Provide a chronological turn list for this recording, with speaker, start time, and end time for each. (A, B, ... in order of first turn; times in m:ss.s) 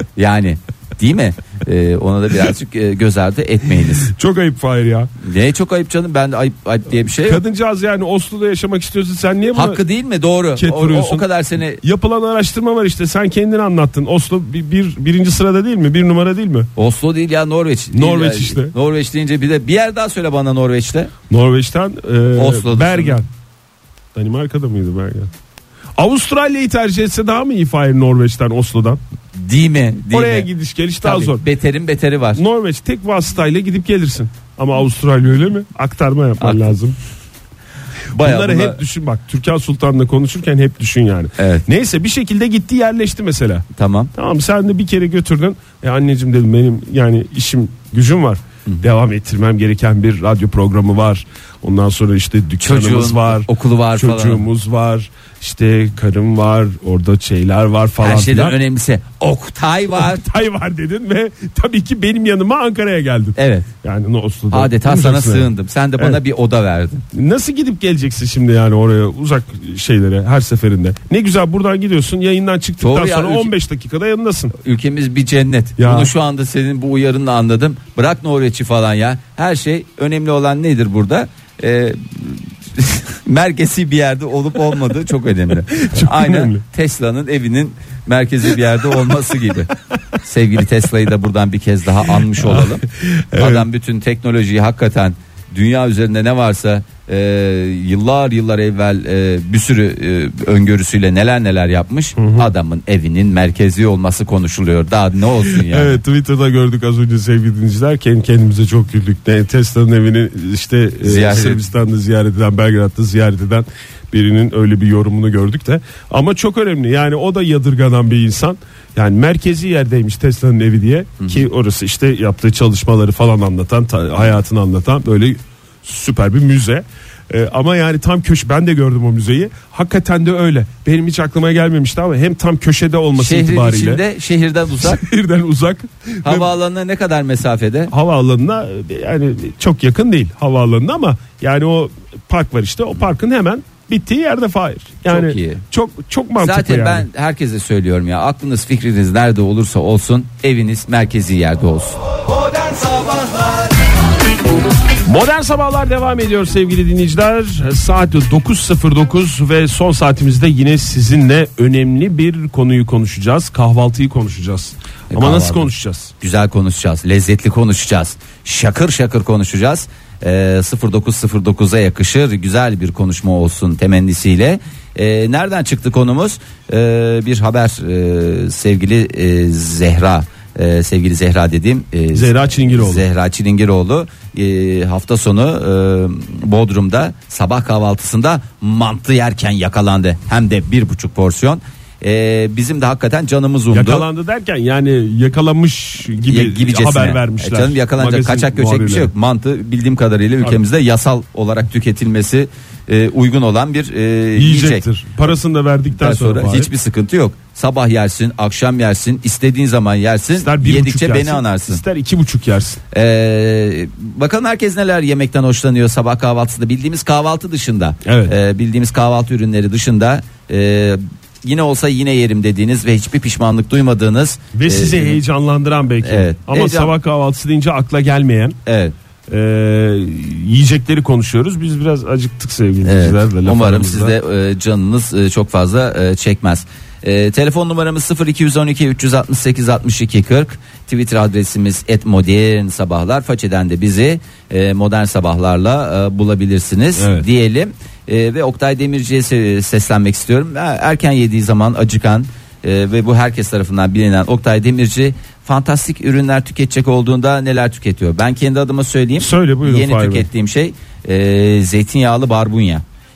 0:00.2-0:04.1 A
0:04.1-0:05.1 B
0:05.2-0:07.4 A
0:07.2-0:09.8 B
0:09.5-0:11.8 A
0:10.5-0:11.3 B
0:11.8-0:16.7 B
0:16.8-0:21.1 A
0:17.9-0:18.7 B
0:21.3-0:23.3 B
0:22.4-0:23.2 A
0:24.1-0:25.3 B
0:26.0-0:29.0 B
0:29.3-0:30.5 A
0:30.1-0:31.4 B
0:31.0-0:32.4 A
0:32.3-0:37.0 B
0:36.4-0:36.7 A
0:38.1-0:38.8 A
0:38.2-0:58.6 B
0:41.4-0:41.6 A
0:43.8-0:44.1 A
0:52.6-0:54.4 A
0:58.0-1:00.2 A
0:59.9-1:06.2 B
1:03.4-1:03.7 A
1:04.5-1:07.0 A
1:07.1-1:14.5 B
1:12.8-1:13.5 A
1:14.6-1:29.7 A
1:15.8-1:16.1 B
1:25.8-1:26.6 B
1:30.2-1:46.0 A
1:32.2-1:33.6 B
1:42.2-1:42.5 B
1:45.4-2:14.0 B
1:51.0-1:51.6 A
2:01.2-2:01.5 A
2:13.2-2:15.0 A
2:14.8-2:16.5 B
2:16.2-2:17.9 A
2:17.9-2:27.1 B
2:25.0-2:25.6 A
2:26.4-2:32.0 A
2:32.7-2:33.3 A
2:35.0-2:46.1 B
2:45.1-3:14.0 A
3:02.1-3:03.0 B
3:13.7-3:19.1 B
3:16.2-3:24.8 A
3:24.4-3:26.7 B
3:26.0-3:31.8 A
3:30.3-3:32.8 B
3:32.9-3:45.2 A
3:38.0-3:38.3 B
3:44.5-3:48.6 B
3:46.0-3:46.9 A
3:48.6-3:48.9 A
3:49.3-3:54.1 B
3:52.8-4:22.8 A
4:07.0-4:07.2 B
4:19.2-4:20.3 B